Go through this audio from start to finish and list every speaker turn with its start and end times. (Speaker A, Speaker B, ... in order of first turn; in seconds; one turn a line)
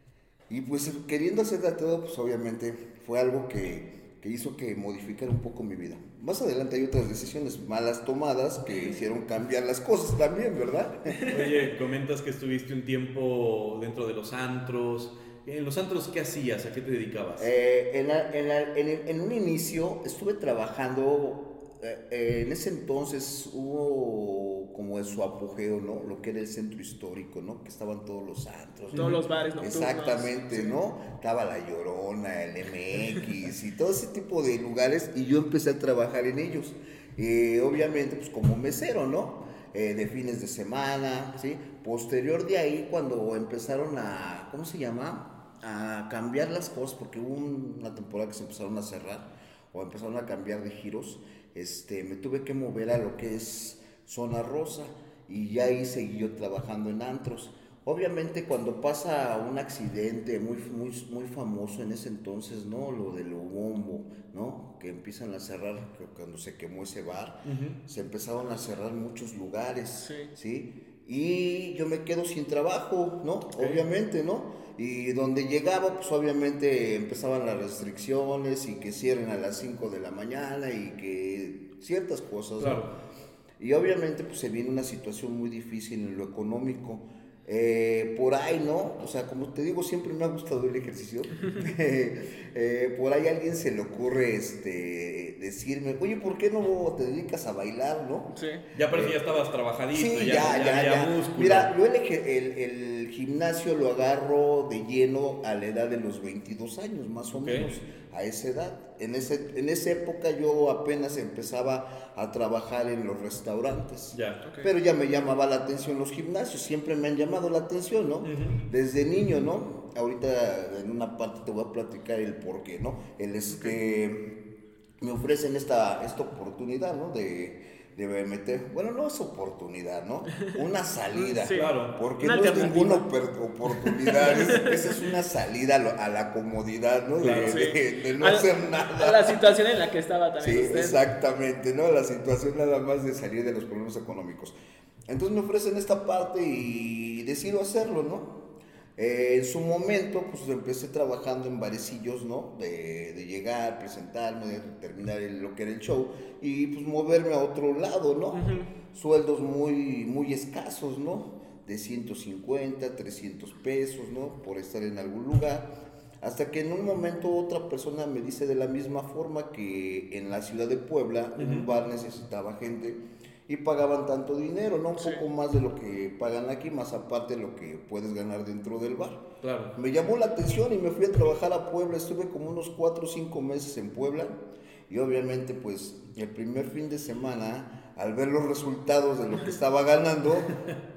Speaker A: 0.5-11.2
Speaker B: 11.3-17.5
Speaker A: 17.4-82.9
Speaker C: 28.9-30.8
Speaker B: 67.5-67.8
Speaker C: 70.0-70.3
Speaker B: 82.6-82.9
Speaker A: 83.6-98.3
Speaker C: 98.3-98.6
Speaker B: 98.8-101.7
Speaker A: 98.9-99.2
Speaker A: 99.9-124.3
Speaker B: 107.3-107.7
Speaker B: 114.1-114.4
Speaker C: 114.4-114.7
Speaker B: 118.2-118.6
Speaker C: 123.5-123.8
Speaker A: 125.0-139.4
Speaker C: 131.1-133.1
Speaker B: 131.6-131.9
Speaker C: 133.9-134.7
Speaker B: 137.2-137.6
Speaker C: 137.4-141.0
Speaker A: 140.4-144.6
Speaker A: 145.1-179.2
Speaker C: 158.3-158.7
Speaker B: 171.4-171.7
Speaker B: 179.4-179.7
Speaker A: 179.8-190.6